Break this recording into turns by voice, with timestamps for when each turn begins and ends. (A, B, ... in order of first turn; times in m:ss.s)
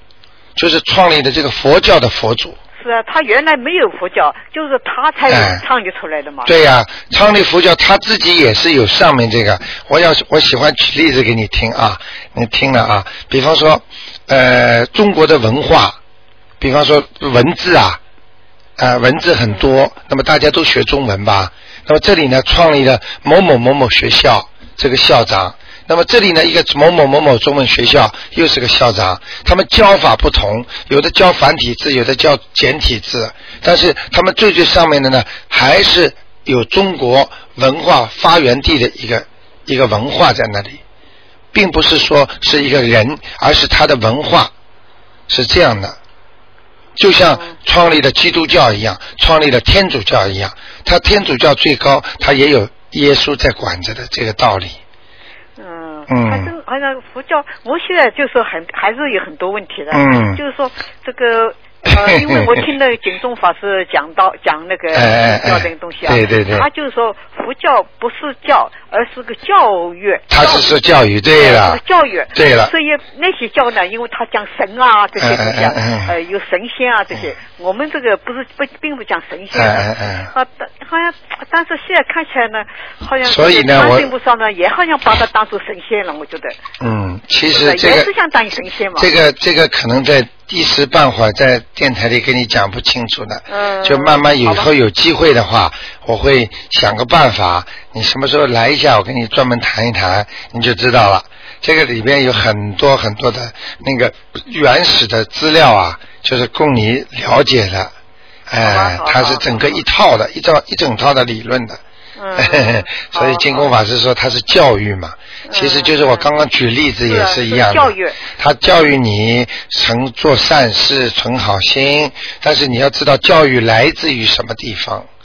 0:00.6-0:02.6 A
0:02.8-0:06.5 B
0:05.3-0:05.6 A
0:06.4-0:16.0 A
0:16.6-0:18.0 A
0:18.8-0:40.8 A
0:41.5-0:44.5 A
0:45.3-0:46.0 A
0:47.0-0:54.8 A
0:47.3-0:47.6 B
0:55.6-1:10.8 B
0:56.1-0:56.5 A
0:59.9-1:00.4 A
1:01.9-1:02.5 A
1:04.9-1:06.7 A
1:10.3-1:11.8 A
1:11.4-1:26.6 B
1:12.3-1:12.7 A
1:15.2-1:16.1 A
1:19.5-1:20.3 A
1:23.2-1:24.1 A
1:26.8-1:28.1 A
1:27.5-1:29.1 B
1:29.0-1:47.9 A
1:33.5-1:34.7 B
1:48.5-1:51.8 A
1:48.6-1:49.8 B
1:52.2-1:53.7 B
1:52.4-2:05.1 A
1:55.5-1:56.3 B
1:57.0-1:58.2 B